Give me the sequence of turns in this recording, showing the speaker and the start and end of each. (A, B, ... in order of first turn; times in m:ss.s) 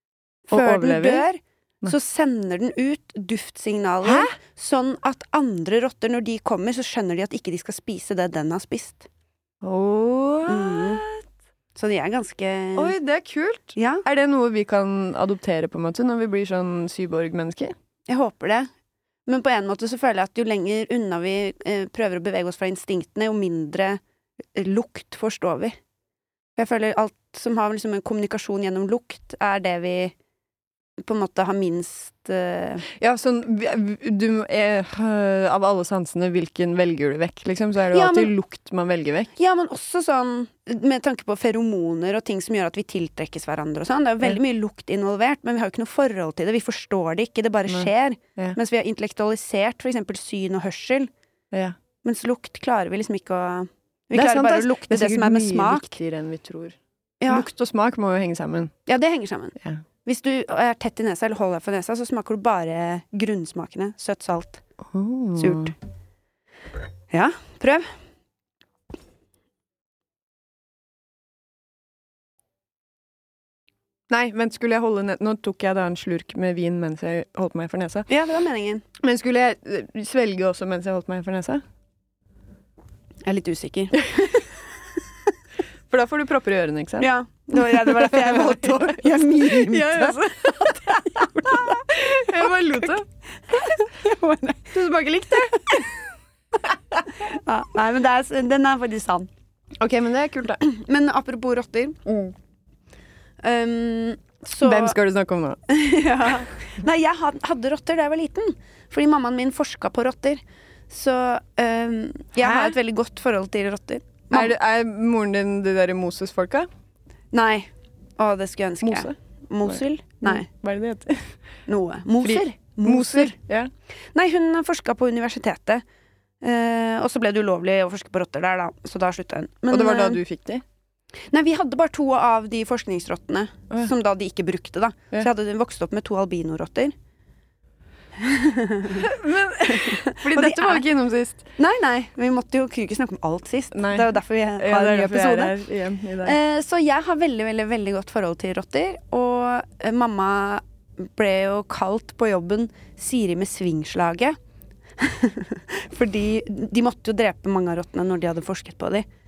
0:00.5-0:09.1 A
0:00.5-0:01.2 B
0:04.0-0:04.3 B
0:09.6-0:11.2 B
0:10.4-0:11.0 A
0:11.7-0:12.9 A
0:12.8-0:17.7 B
0:13.8-0:14.0 A
0:18.1-0:18.7 A
0:19.2-0:24.0 A
0:24.5-0:25.8 A
0:26.6-0:30.1 A
0:31.0-0:32.8 A
0:33.0-0:39.3 B
0:37.9-0:38.3 A
0:39.4-0:51.1 A
0:47.7-0:48.6 B
0:51.5-0:51.8 B
0:52.0-0:56.0 A
0:54.1-0:58.7 B
0:57.2-0:57.4 A
0:58.9-1:04.6 A
1:04.8-1:05.7 B
1:05.4-1:05.7 A
1:07.1-1:07.9 A
1:14.1-1:18.1 B
1:18.1-1:18.8 A
1:19.0-1:21.6 B
1:23.2-1:24.5 A
1:25.9-1:33.0 B
1:27.0-1:32.9 A
1:33.5-1:34.8 A
1:34.7-1:35.9 B
1:35.5-1:35.8 A
1:37.1-1:39.3 A
1:39.8-1:40.6 B
1:40.6-1:42.3 A
1:43.4-1:45.0 A
1:44.6-1:45.6 B
1:45.7-1:54.5 A
1:52.4-1:52.8 B
1:54.3-1:56.7 B
1:57.3-2:00.5 A
1:58.8-2:01.4 B
2:01.7-2:03.4 A
2:02.2-2:03.7 B
2:04.1-2:05.8 A
2:06.4-2:10.2 A
2:09.7-2:10.6 B
2:11.3-2:16.9 A
2:18.2-2:19.0 A
2:18.9-2:21.5 B
2:19.6-2:20.8 A
2:21.6-2:25.6 A
2:23.7-2:26.4 B
2:26.2-2:34.4 A
2:35.0-2:39.0 A